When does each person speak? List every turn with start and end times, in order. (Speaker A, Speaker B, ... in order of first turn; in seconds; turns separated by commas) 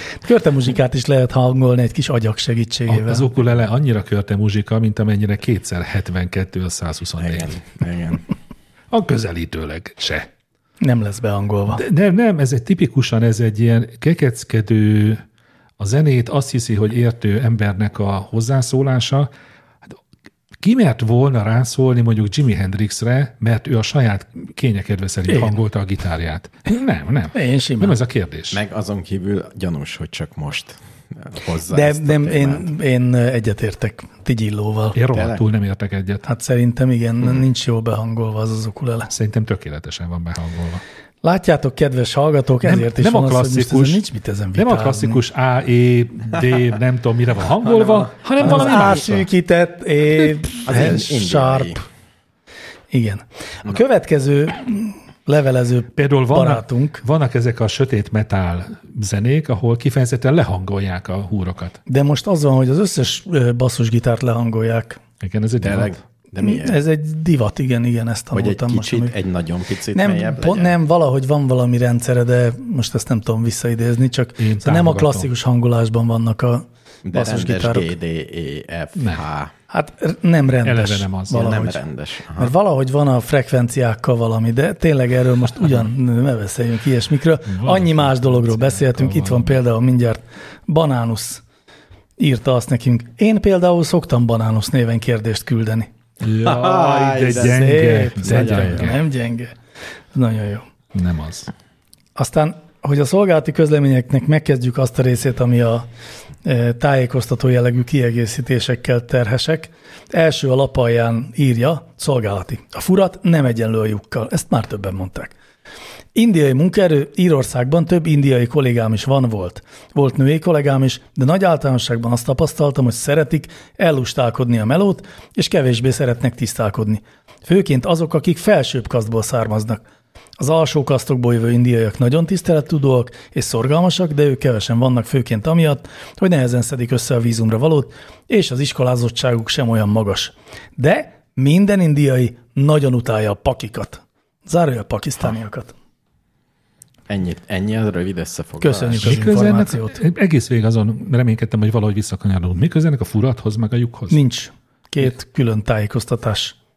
Speaker A: 0.2-3.2, Speaker B: 2.9-7.6, Speaker C: 7.2-8.2, Speaker B: 8.9-10.3, Speaker A: 10.8-11.8, Speaker B: 11.7-15.2, Speaker B: 15.8-19.3, Speaker B: 20.6-28.6, Speaker A: 25.3-25.5, Speaker A: 27.3-28.0, Speaker C: 28.5-32.7, Speaker A: 31.7-35.0, Speaker B: 34.9-36.2, Speaker C: 35.1-35.4, Speaker A: 36.2-39.1, Speaker B: 39.1-40.8, Speaker A: 41.2-45.2, Speaker B: 42.6-44.0, Speaker B: 44.5-49.2, Speaker C: 47.6-49.1, Speaker A: 48.4-51.8, Speaker C: 50.6-51.8, Speaker A: 52.9-57.0, Speaker B: 56.0-61.8, Speaker A: 61.9-65.0, Speaker B: 65.2-66.0, Speaker C: 65.6-66.8, Speaker A: 66.4-69.1, Speaker C: 68.3-70.8, Speaker A: 69.9-77.9, Speaker B: 74.4-75.3, Speaker C: 77.0-79.5, Speaker B: 79.0-79.2, Speaker A: 79.7-81.8, Speaker B: 80.6-81.6, Speaker C: 81.3-82.5, Speaker A: 82.3-91.4, Speaker B: 87.5-89.6, Speaker A: 92.2-95.9, Speaker B: 96.2-99.0, Speaker C: 96.4-98.9, Speaker A: 97.3-99.5, Speaker A: 100.1-100.7, Speaker B: 100.9-101.5, Speaker A: 102.2-105.9, Speaker A: 106.4-115.3, Speaker A: 116.1-129.8, Speaker A: 130.4-145.7, Speaker C: 147.1-149.3, Speaker A: 148.6-150.0, Speaker B: 149.0-154.2, Speaker A: 154.1-156.5